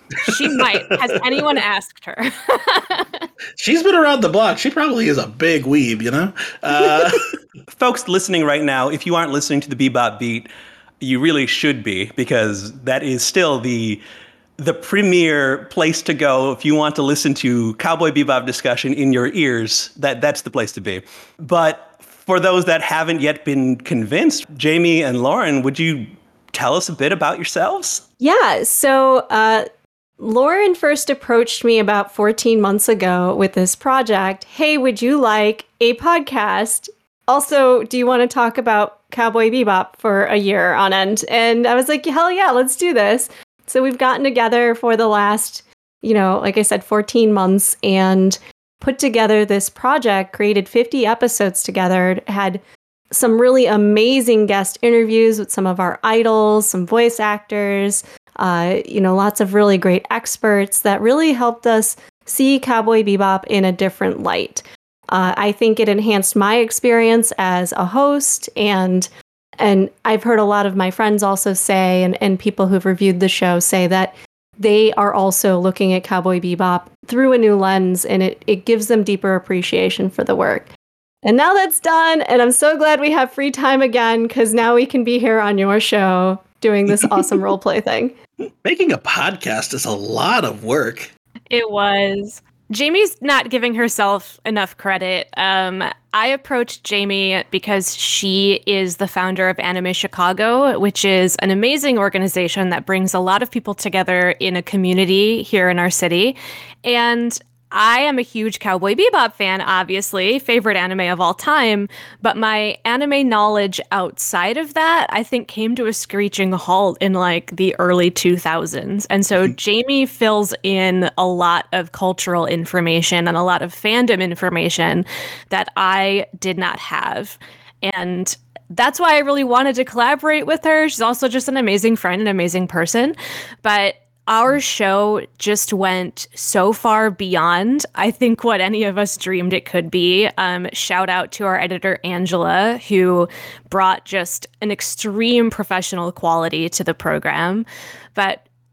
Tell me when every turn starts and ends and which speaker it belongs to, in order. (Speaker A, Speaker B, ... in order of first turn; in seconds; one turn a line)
Speaker A: 0.2-3.3
Speaker B: 0.5-1.2
Speaker B: 3.6-7.3
Speaker C: 7.7-10.5
Speaker C: 11.0-14.0
Speaker C: 14.6-28.0
Speaker D: 28.2-29.7
Speaker D: 30.2-69.1
Speaker D: 69.6-80.7
Speaker D: 81.2-88.2
Speaker B: 88.6-91.1
Speaker A: 91.5-148.4